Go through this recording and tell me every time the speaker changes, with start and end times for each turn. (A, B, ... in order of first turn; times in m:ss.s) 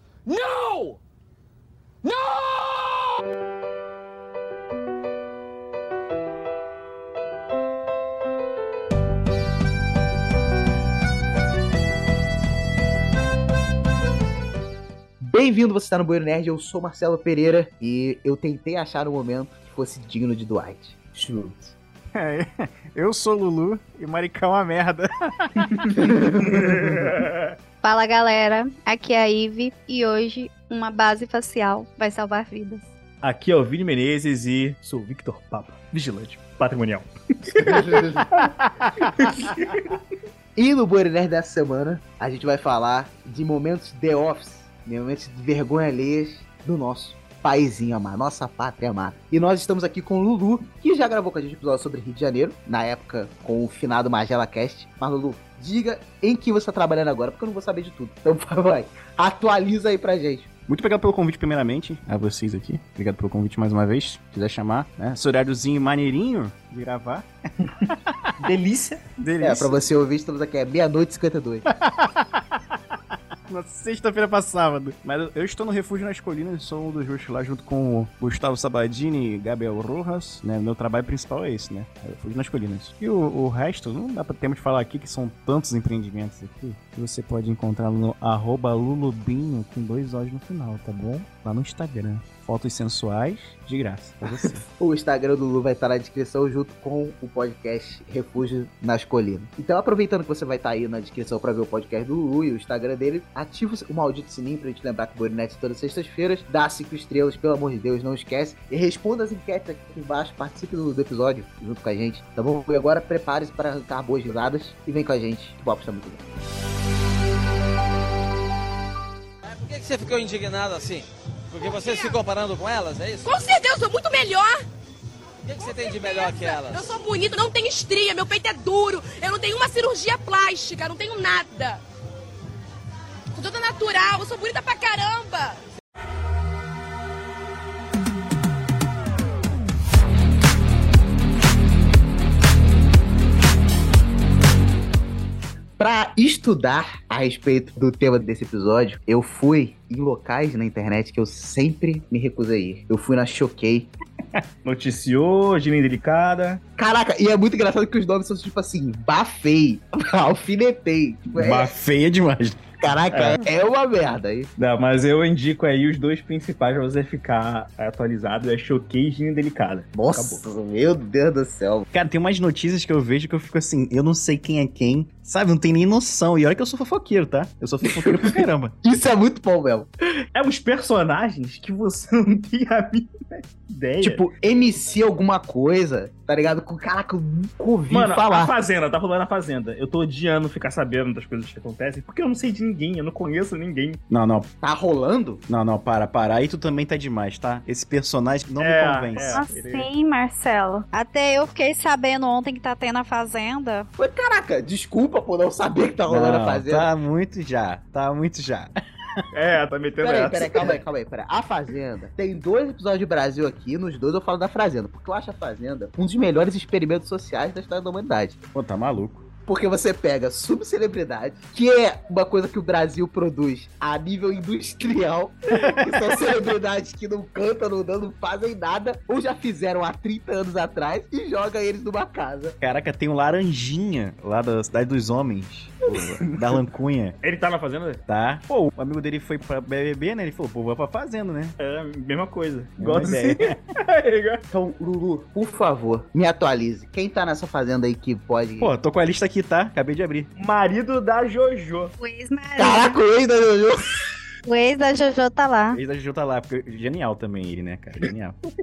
0:00.2-0:01.0 A
0:02.0-0:03.2 A
0:15.2-0:21.7 B
0:22.1-0:25.8 C
0:25.7-0:27.5 D
0:26.0-0:26.8 B
0:26.5-0:26.8 C
0:27.8-0:32.9 E
0:33.2-0:37.8 D
0:37.6-0:38.5 B
0:39.2-0:39.9 D
0:40.6-1:00.5 B
1:00.7-1:07.3 C
1:07.7-1:09.4 D
1:07.8-1:08.4 C
1:09.2-1:09.7 C
1:09.4-1:11.7 B
1:11.7-1:34.6 C
1:34.8-1:56.2 B
1:59.4-2:03.3 F
2:01.7-2:02.2 G
2:03.2-2:04.6 G
2:05.4-2:07.0 F
2:05.8-2:11.8 G
2:13.3-2:15.6 G
2:25.8-2:33.9 B
2:34.6-2:36.6 D
2:36.8-2:41.7 B
2:41.4-2:42.7 C
2:42.8-2:44.5 B
2:43.1-2:43.4 D
2:44.6-2:50.4 D
2:49.9-2:51.9 B
2:51.9-2:58.8 C
2:57.9-2:59.9 B
3:00.4-3:04.2 D
3:04.0-3:08.5 B
3:07.9-3:14.0 D
3:14.1-3:14.5 C
3:14.6-3:15.4 B
3:15.5-3:19.4 C
3:18.6-3:19.9 D
3:19.2-3:23.9 E
3:24.0-3:26.9 B
3:26.1-3:29.2 C
3:29.3-3:30.8 D
3:30.0-3:38.4 B
3:38.5-3:39.3 C
3:39.4-3:52.6 B
3:45.6-3:46.0 C
3:52.6-3:57.2 C
3:57.2-3:58.0 D
3:58.1-4:01.6 C
4:01.6-4:04.4 D
4:02.8-4:03.6 C
4:04.5-4:08.7 B
4:08.6-4:10.3 C
4:10.4-4:11.9 D
4:12.0-4:13.0 E
4:12.6-4:14.0 B
4:14.5-4:15.8 E
4:15.7-4:18.4 C